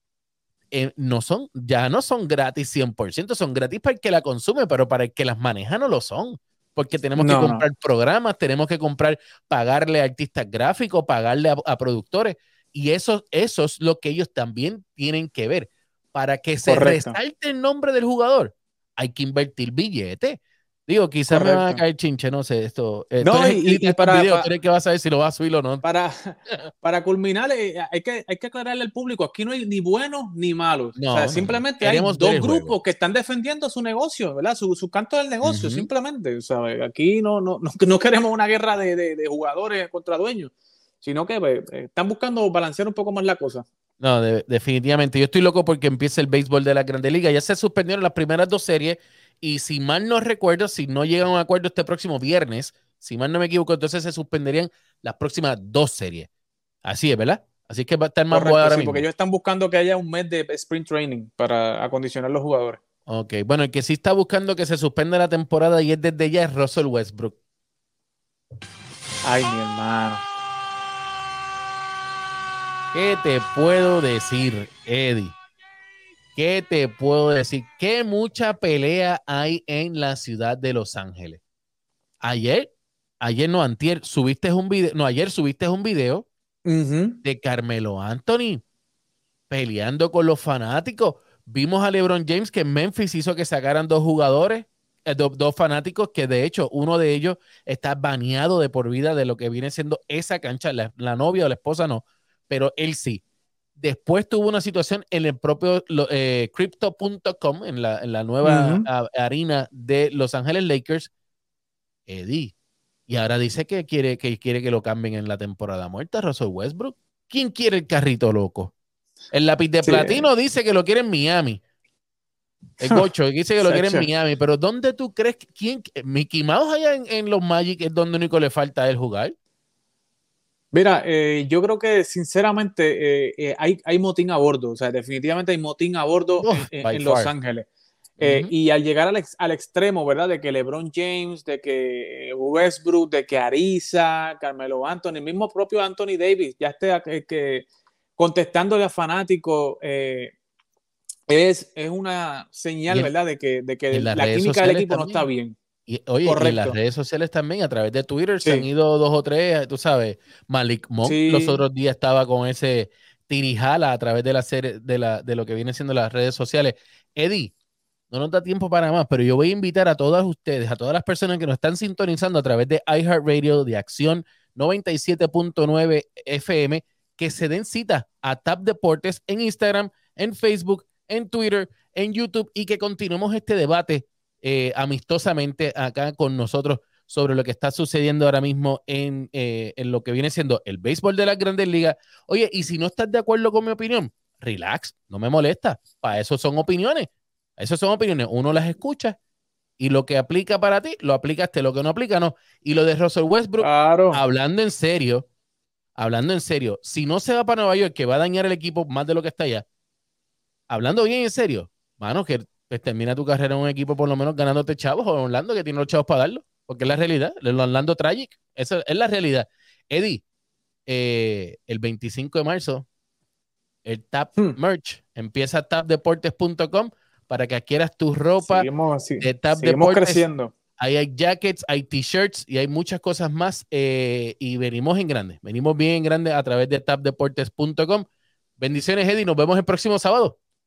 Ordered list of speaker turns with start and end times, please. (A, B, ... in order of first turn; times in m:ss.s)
0:00.7-0:25.8 A
0:07.2-0:07.7 B
0:16.7-0:17.2 B
0:21.3-0:21.8 B
0:23.2-0:24.5 B
0:25.8-0:43.7 B
0:31.0-0:32.7 A
0:35.4-0:35.9 A
0:44.0-0:56.3 A
0:56.8-0:59.0 A
0:58.3-1:02.8 B
1:03.1-1:07.4 A
1:09.2-1:10.2 B
1:12.9-1:15.4 A
1:16.4-1:21.4 A
1:22.2-1:26.3 A
1:26.7-1:27.2 B
1:27.2-1:28.6 A
1:29.5-1:43.2 A
1:43.8-1:51.1 A
1:48.4-1:48.9 B
1:52.1-1:52.5 A
1:53.1-1:58.7 A
1:59.3-2:01.6 A
1:59.8-2:00.3 B
2:02.8-2:09.4 A
2:02.8-2:03.1 B
2:03.6-2:04.1 B
2:10.7-2:17.7 B
2:16.4-2:17.3 A
2:18.2-2:18.5 A
2:18.2-2:27.7 B
2:28.2-2:30.3 B
2:31.3-2:35.6 B
2:33.9-2:35.3 A
2:35.9-2:47.5 A
2:36.3-2:36.8 B
2:41.0-2:41.6 B
2:48.1-3:19.2 A
3:19.8-3:25.3 A
3:23.6-3:24.2 B
3:26.0-3:29.7 A
3:30.7-3:40.2 A
3:40.9-3:42.9 A
3:43.8-3:48.7 A
3:48.4-3:50.5 B
3:49.2-3:50.2 A
3:50.8-3:58.1 A
3:58.6-4:00.4 A